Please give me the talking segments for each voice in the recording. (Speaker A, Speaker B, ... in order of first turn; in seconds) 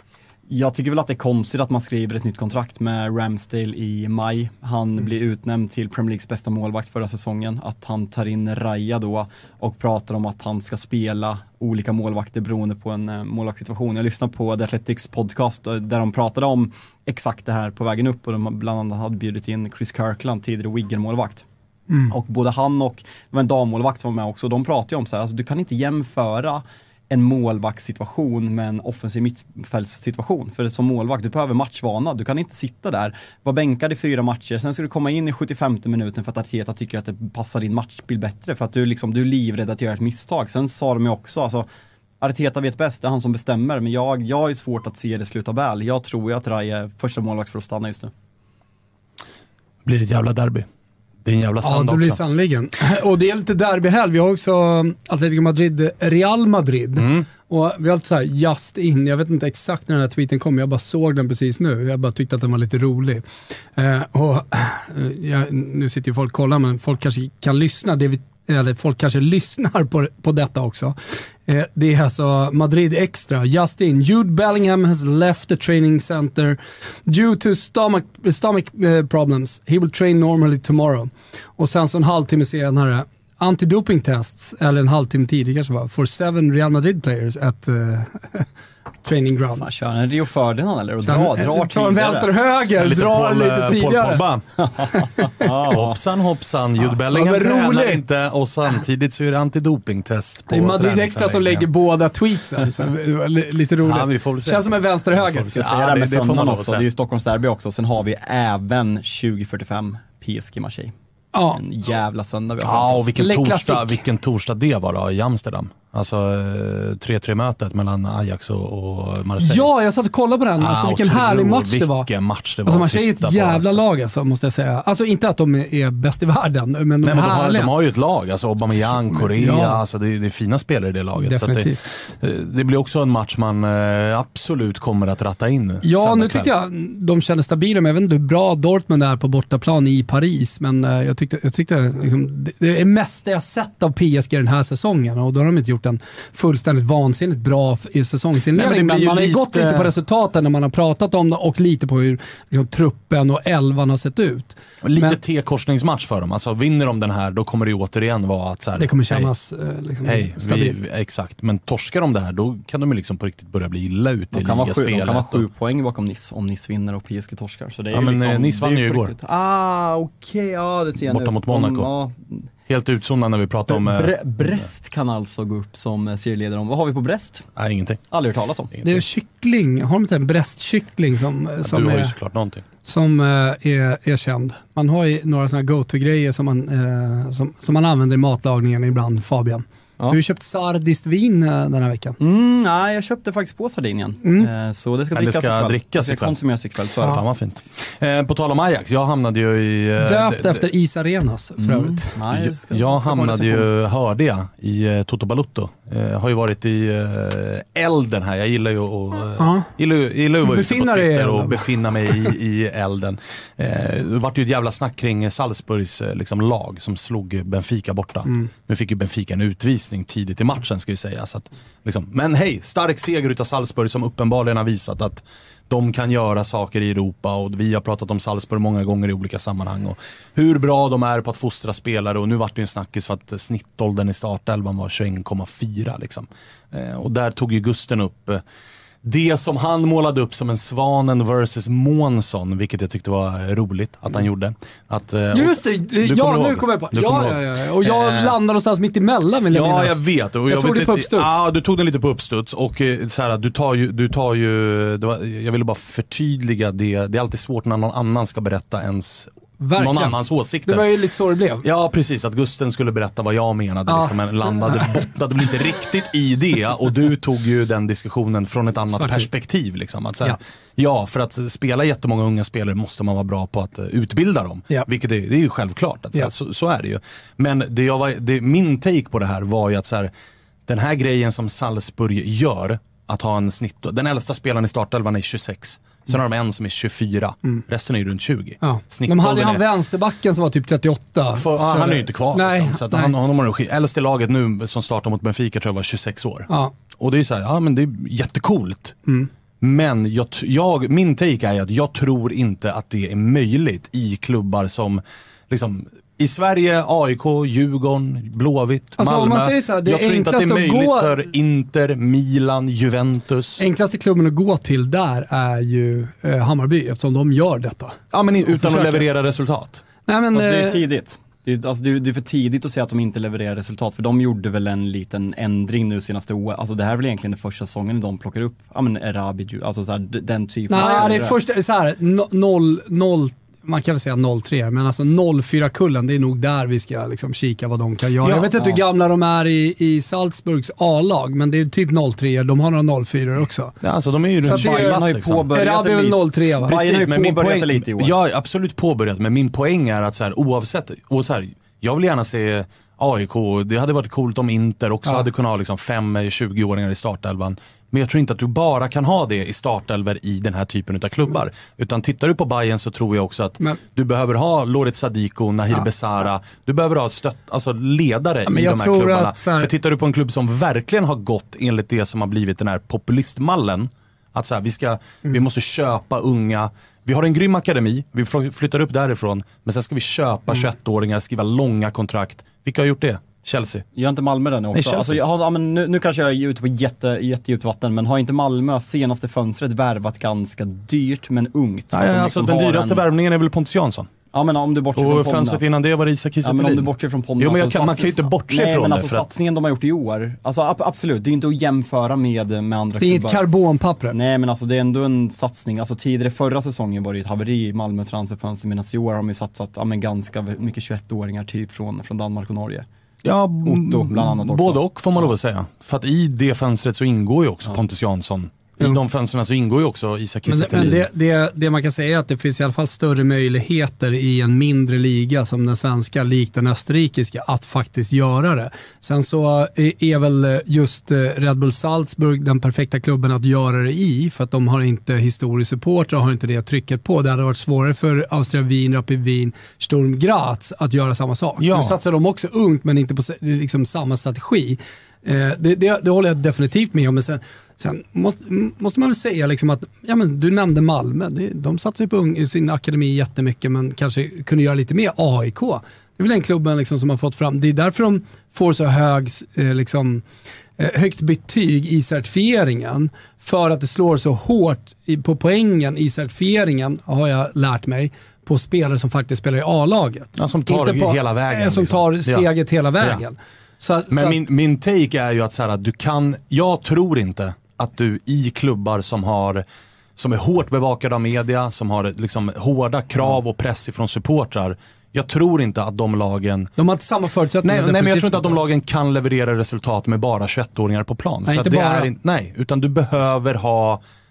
Speaker A: 0.5-21.4, 22.1-41.7, 42.2-48.1, 89.6-92.3, 94.6-96.0, 105.5-113.1, 164.3-172.5, 173.7-177.5, 178.1-178.8, 192.2-197.2, 201.6-203.7, 320.3-331.4, 344.4-348.1, 383.9-393.0, 394.3-395.6, 396.4-403.4, 404.1-412.9, 413.6-415.3
Speaker B: 49.8-50.7, 51.2-52.2, 57.0-57.3, 92.8-94.5, 95.7-101.7, 103.8-106.9, 112.6-119.7, 120.6-123.8, 127.0-136.5, 148.5-149.9, 154.8-159.3, 160.0-165.4, 167.9-169.1, 171.1-171.9, 172.7-174.7, 177.6-178.0, 178.7-179.0, 181.6-182.6, 195.1-196.4, 197.0-200.6, 202.3-238.4, 239.0-248.4, 249.5-260.9, 261.6-280.1, 280.7-289.6, 291.4-299.0, 299.6-313.6, 318.1-319.8, 338.2-338.5, 343.8-345.5, 346.6-383.9, 384.7-385.2, 391.9-394.1, 394.9-399.3, 413.2-421.1, 441.6-442.0, 470.4-473.2, 474.1-479.6, 480.1-486.7, 487.6-494.0
Speaker C: 51.6-88.5, 89.0-89.6, 91.0-94.2, 97.1-98.0, 100.5-105.5, 111.3-111.6, 113.2-114.0, 119.4-122.1, 122.7-127.7, 129.1-129.8, 131.2-131.8, 135.8-155.2, 158.8-160.8, 178.8-182.1, 182.8-192.2, 194.2-194.5, 200.0-202.1, 209.4-209.7, 210.4-212.3, 245.3-251.4, 259.6-261.6, 263.9-264.9, 268.9-269.3, 288.6-293.1, 309.0-311.2, 313.6-319.1, 320.1-320.8, 330.7-343.7, 344.4-345.0, 345.5-346.7, 368.4-369.7, 403.0-404.1, 420.5-460.2, 460.8-474.4, 486.8-488.6, 491.4-492.1